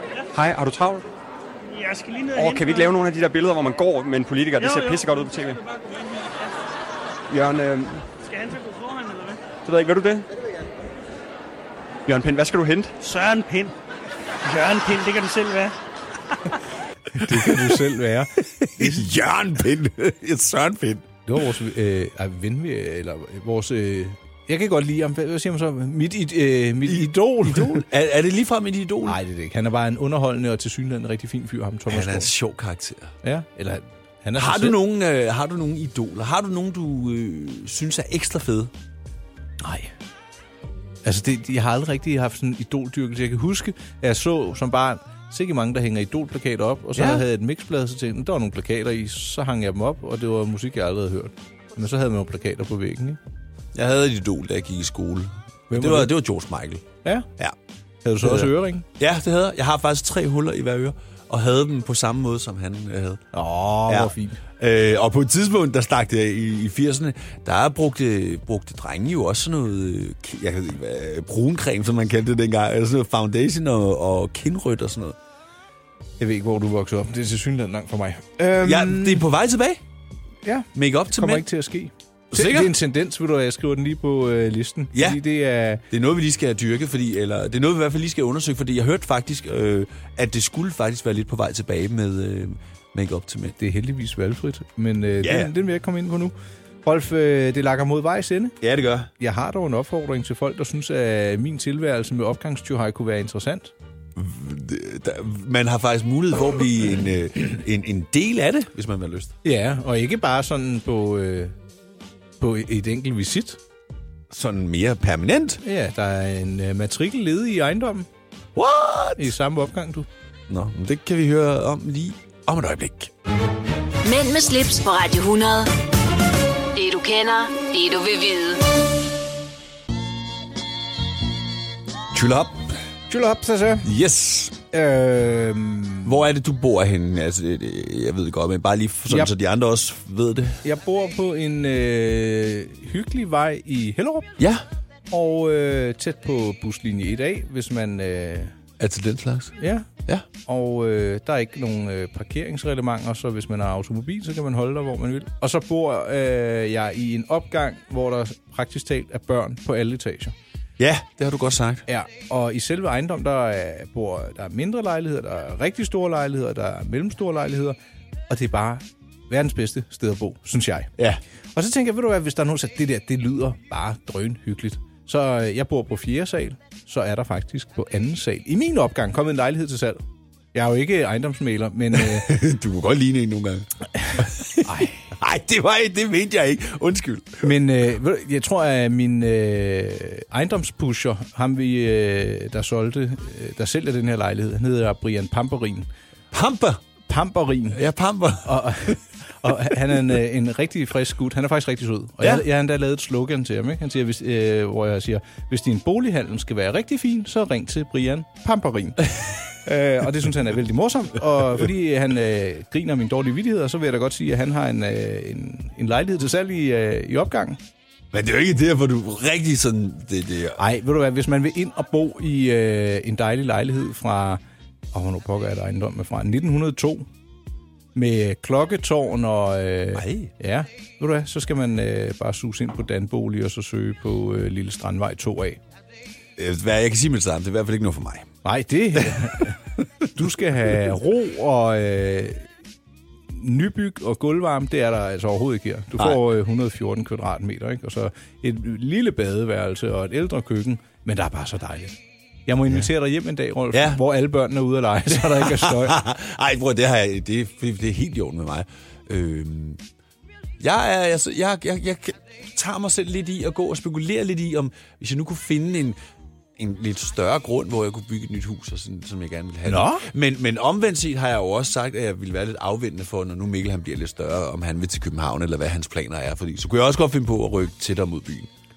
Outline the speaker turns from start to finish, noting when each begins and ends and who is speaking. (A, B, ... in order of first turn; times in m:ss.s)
0:00.3-0:01.0 A
0:01.7-0:02.9 B
0:02.4-0:05.6 A
0:04.6-0:06.4 B
0:07.3-0:08.1 A
0:08.1-0:09.4 B
0:09.6-0:10.3 A
0:12.0-0:12.9 A
0:13.0-0:13.7 B
0:14.4-0:15.8 B
0:17.1-0:19.1 C
0:17.2-0:17.8 D
0:18.6-0:21.1 D
0:21.3-0:27.8 C
0:26.8-0:29.2 D
0:29.0-0:32.3 C
0:31.9-0:33.1 D
0:33.2-0:34.8 C
0:34.4-0:38.7 D
0:39.6-0:39.9 C
0:41.0-0:53.2 C
0:47.0-0:47.2 D
0:53.7-0:56.8 D
0:55.7-0:56.1 C
0:58.0-0:58.9 C
0:58.2-1:03.2 D
1:03.3-1:04.4 C
1:03.9-1:15.2 D
1:16.2-1:19.2 C
1:18.6-1:19.8 D
1:20.4-1:25.8 C
1:20.7-1:21.4 D
1:22.3-1:22.7 D
1:24.9-1:25.2 D
1:25.9-1:33.6 D
1:33.6-1:38.6 C
1:35.2-1:35.5 D
1:38.6-1:39.1 D
1:39.2-1:43.7 C
1:44.2-1:49.3 D
1:49.4-1:51.5 C
1:52.4-1:53.6 C
1:54.3-1:55.6 D
1:55.6-1:58.1 C
1:58.5-1:59.3 D
1:59.2-2:00.1 C
2:00.5-2:03.1 D
2:04.0-2:05.7 E
2:06.7-2:08.8 E
2:12.1-2:12.7 D
2:13.1-2:13.9 C
2:13.8-2:14.6 D
2:14.7-2:16.2 C
2:16.0-2:20.6 D
2:20.6-2:24.4 C
2:24.4-2:24.6 D
2:25.1-2:28.5 C
2:28.8-2:30.2 D
2:29.6-2:29.9 C
2:30.4-2:40.3 C
2:40.8-2:41.8 D
2:41.9-2:47.8 C
2:48.3-2:50.9 C
2:51.5-3:00.0 C
3:00.5-3:02.5 C
3:01.9-3:07.5 D
3:04.6-3:05.0 C
3:07.4-3:15.9 C
3:16.3-3:16.8 D
3:17.1-3:17.8 C
3:17.7-3:19.0 D
3:18.4-3:37.6 C
3:38.1-3:40.6 D
3:40.6-3:44.4 C
3:44.9-3:47.1 C
3:47.9-3:55.6 C
3:49.9-3:50.3 D
3:56.4-3:58.3 D
3:58.4-3:59.6 C
4:00.1-4:02.5 C
4:03.3-4:16.0 C
4:13.7-4:14.0 D
4:15.1-4:19.8 D
4:20.6-4:26.0 D
4:26.6-4:38.5 D
4:29.6-4:30.1 C